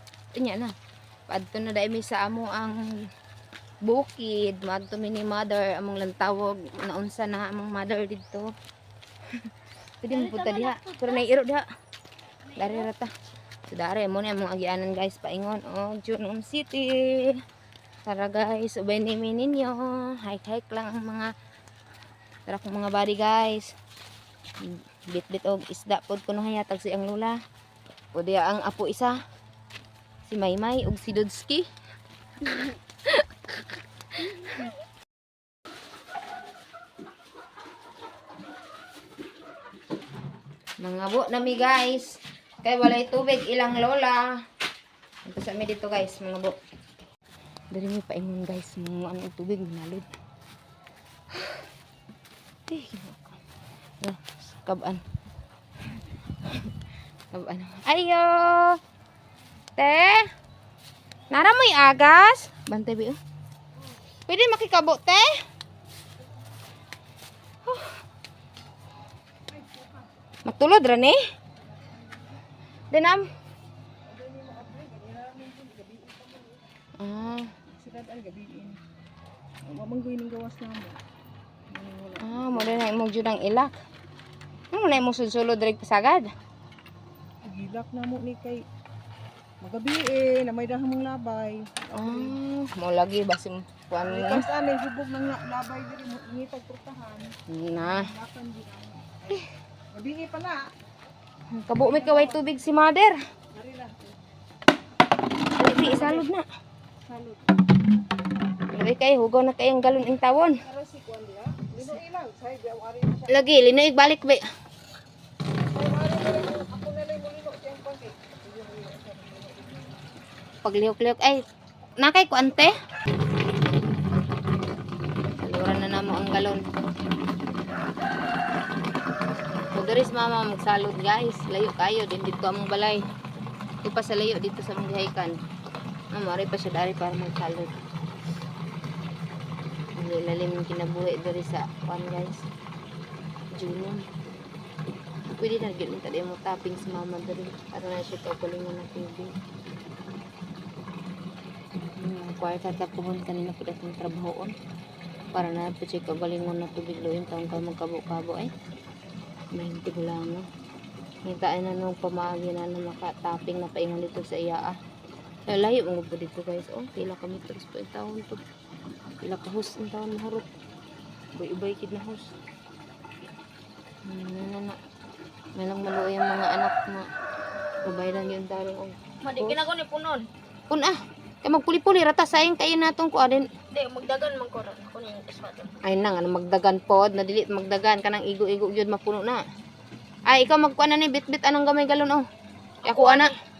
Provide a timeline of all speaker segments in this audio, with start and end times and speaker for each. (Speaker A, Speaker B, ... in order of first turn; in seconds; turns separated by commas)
Speaker A: 0.3-0.7, Speaker A: 1.3-2.7, Speaker A: 3.9-8.4, Speaker A: 10.0-11.6, Speaker B: 10.1-11.2, Speaker A: 12.6-13.1, Speaker B: 12.6-12.9, Speaker A: 13.7-17.4, Speaker A: 18.1-21.3, Speaker A: 22.5-23.7, Speaker A: 24.6-27.4, Speaker A: 28.1-29.1, Speaker A: 30.2-31.6, Speaker A: 32.5-33.2, Speaker A: 34.2-34.7, Speaker A: 40.8-44.4, Speaker A: 45.3-46.5, Speaker A: 47.7-50.1, Speaker A: 52.7-53.4, Speaker A: 54.0-55.0, Speaker A: 57.3-58.8, Speaker A: 59.8-60.2, Speaker A: 61.3-63.2, Speaker A: 64.3-65.3, Speaker C: 69.6-69.9, Speaker A: 70.4-71.2, Speaker A: 72.9-73.2, Speaker C: 74.1-76.6, Speaker A: 77.0-77.5, Speaker C: 77.8-78.8, Speaker C: 79.7-81.0, Speaker C: 81.7-82.9, Speaker A: 82.2-83.7, Speaker A: 84.7-86.3, Speaker C: 87.5-88.6, Speaker C: 89.6-92.4, Speaker A: 91.9-94.5, Speaker C: 94.0-100.6, Speaker A: 97.5-98.0, Speaker A: 101.5-103.1, Speaker C: 101.8-102.4, Speaker C: 103.5-104.2, Speaker A: 105.5-106.5, Speaker C: 105.6-106.3, Speaker C: 107.1-107.5, Speaker A: 108.7-110.6, Speaker C: 110.5-113.5, Speaker A: 113.3-114.4, Speaker C: 115.7-119.9, Speaker A: 120.6-121.4, Speaker A: 122.0-122.7, Speaker A: 125.4-126.6, Speaker A: 129.7-133.0, Speaker A: 133.8-135.3, Speaker A: 136.1-137.8, Speaker A: 140.0-142.4, Speaker A: 143.6-144.0, Speaker A: 145.3-149.3, Speaker A: 152.0-154.5, Speaker A: 155.3-158.5, Speaker A: 159.5-160.4, Speaker A: 161.3-164.7, Speaker A: 165.5-168.4, Speaker A: 169.2-170.5, Speaker A: 171.3-172.3, Speaker A: 174.1-174.8, Speaker A: 175.6-177.0, Speaker A: 177.8-179.6, Speaker B: 179.2-180.3, Speaker A: 180.7-183.4, Speaker B: 183.7-185.7, Speaker A: 185.8-189.4, Speaker A: 190.3-192.2, Speaker B: 192.8-193.4, Speaker A: 192.8-193.3